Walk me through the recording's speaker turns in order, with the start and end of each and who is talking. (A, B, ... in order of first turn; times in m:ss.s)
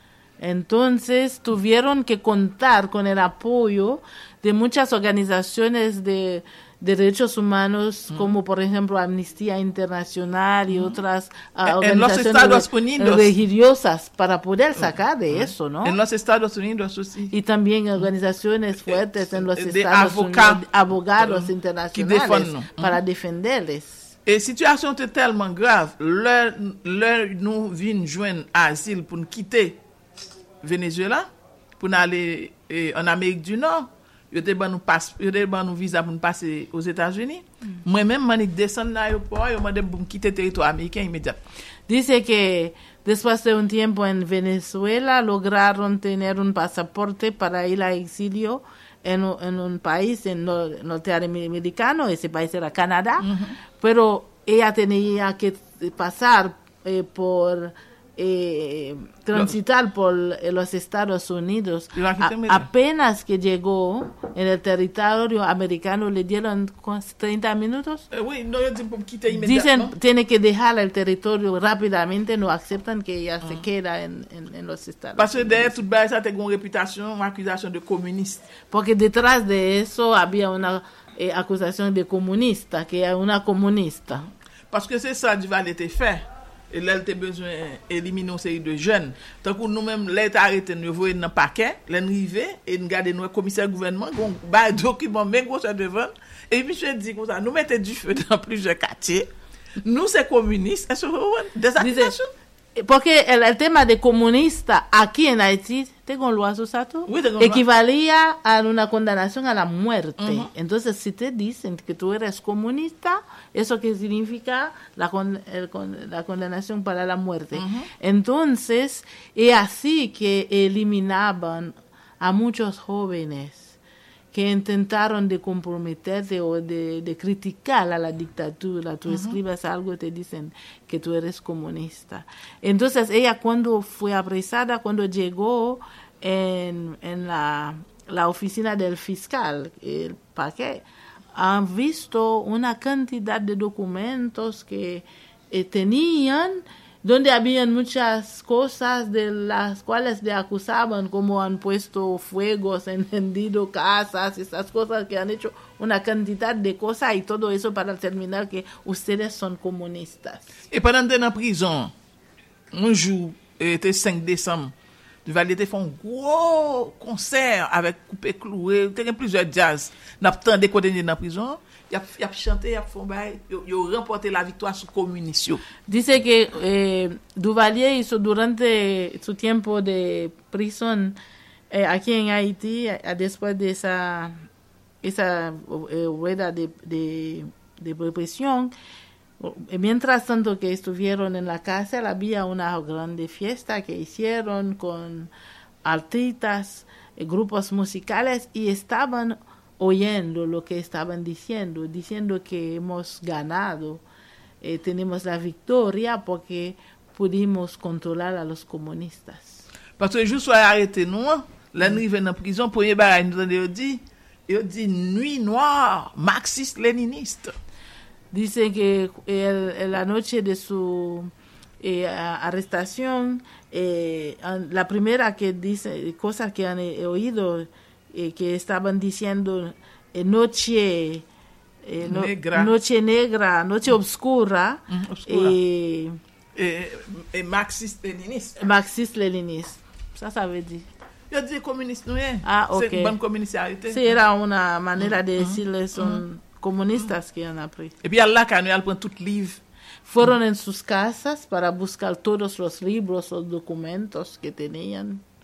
0:00.4-0:16.0 A
0:11.6-0:13.3 B
0:14.8-0:17.3 B
0:17.3-0:24.0 A
0:18.9-0:20.6 B
0:21.2-0:23.0 B
0:24.2-0:29.8 B
0:30.6-0:41.4 B
0:41.9-1:08.0 A
0:53.2-0:53.6 B
1:01.9-1:02.7 B
1:08.1-1:09.9 B
1:09.3-1:15.8 A
1:15.2-1:18.5 B
1:18.7-1:24.3 A
1:24.7-1:39.3 B
1:39.8-1:42.3 B
1:41.8-1:42.1 A
1:42.8-2:03.8 A
1:47.1-1:47.6 B
1:50.2-1:50.5 B
1:57.5-1:57.9 B
2:04.3-2:40.4 A
2:09.1-2:09.4 B
2:40.7-2:41.9 B
2:42.7-2:44.7 B
2:45.2-2:55.6 B
2:55.9-3:01.2 A
3:01.7-3:04.3 A
3:05.0-3:08.7 A
3:09.4-3:15.3 A
3:15.8-3:24.0 A
3:24.6-3:29.6 A
3:30.0-3:37.5 B
3:38.3-3:51.2 A
3:51.8-3:56.2 A
3:52.0-3:52.7 B
3:54.9-3:55.6 B
3:56.5-3:58.6 B
3:58.6-4:00.8 A
4:01.3-4:04.1 B
4:02.4-4:03.2 A
4:03.9-4:07.9 A
4:05.0-4:06.2 B
4:08.0-4:09.6 B
4:10.0-4:15.2 A